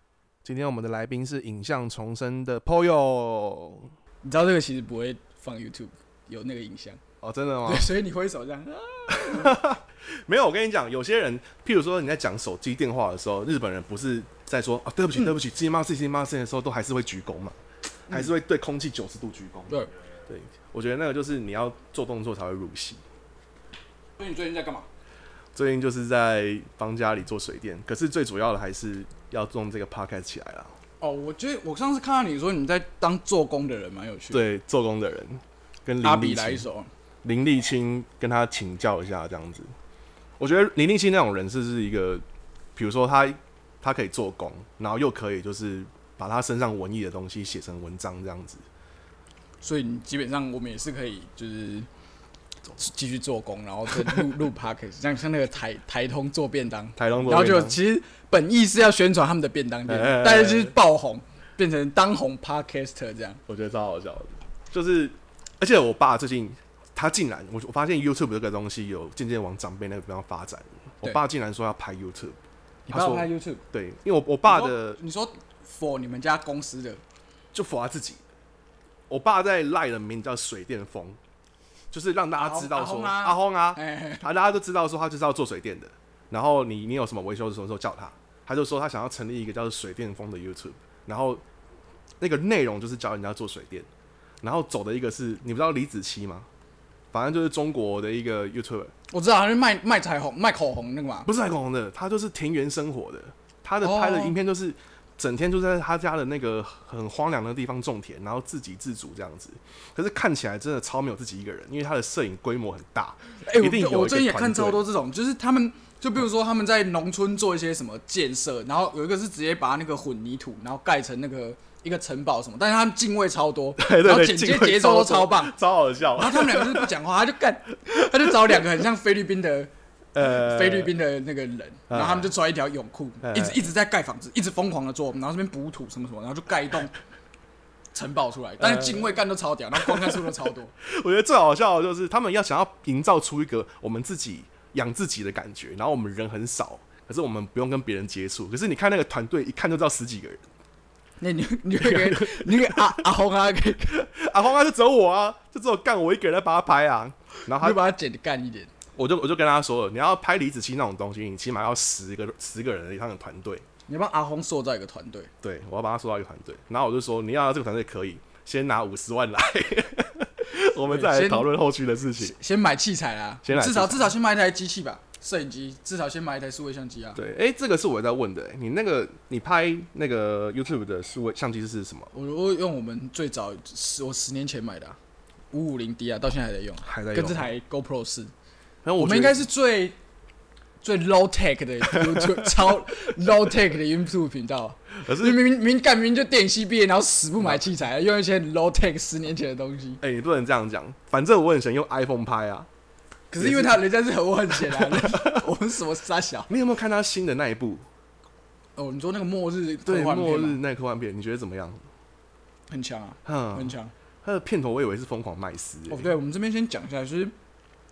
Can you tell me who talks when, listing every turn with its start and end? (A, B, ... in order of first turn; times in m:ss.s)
0:00.4-0:03.9 A
0:04.2-0:07.0 B
0:07.2-0:07.9 A
0:07.6-0:09.6 B
0:09.1-0:17.6 A
0:18.1-0:19.7 A
0:20.3-0:23.0 A
0:24.2-0:24.8 B
0:25.5-0:30.7 A
0:31.0-0:34.4 B
0:34.3-0:36.6 A
0:36.0-0:36.9 B
0:37.2-0:39.7 A
0:40.4-0:42.2 A
0:42.8-0:48.6 A
0:49.6-0:51.9 B
0:52.8-1:03.4 B
0:57.0-0:57.8 A
0:59.9-1:00.7 A
1:03.5-1:15.0 A
1:12.9-1:13.6 B
1:14.4-1:17.0 B
1:17.5-1:18.2 A
1:19.1-1:21.2 A
1:21.9-1:31.4 A
1:22.4-1:24.2 B
1:32.2-1:33.9 A
1:34.4-1:36.5 A
1:37.1-1:38.9 A
1:39.1-1:41.3 B
1:41.2-1:54.8 A
1:43.8-1:44.3 B
1:53.4-2:05.6 B
2:03.8-2:06.9 A
2:06.1-2:17.0 B
2:08.2-2:08.6 A
2:10.1-2:10.9 A
2:11.9-2:12.3 A
2:13.2-2:13.6 A
2:17.9-2:20.7 B
2:18.6-2:19.1 A
2:19.7-2:30.4 A
2:31.2-2:34.0 B
2:31.8-2:33.0 A
2:33.9-2:37.8 A
2:37.6-2:38.7 B
2:39.0-2:43.6 A
2:43.9-2:45.3 B
2:45.4-2:52.3 A
2:50.9-2:51.5 B
2:52.2-2:57.2 B
2:53.4-2:54.1 A
2:57.2-3:02.1 A
3:02.1-3:05.0 B
3:05.5-3:08.3 B
3:06.8-3:07.5 A
3:08.8-3:09.4 A
3:09.0-3:10.0 B
3:10.8-3:20.0 B
3:11.9-3:12.5 A
3:15.0-3:15.4 A
3:17.4-3:17.7 A
3:20.0-3:22.7 A
3:23.3-3:26.5 B
3:23.4-3:23.8 A
3:24.5-3:25.5 A
3:26.5-3:27.8 A
3:28.8-3:30.6 B
3:29.8-3:31.8 A
3:32.7-3:33.9 B
3:33.2-3:36.1 A
3:35.9-3:37.3 B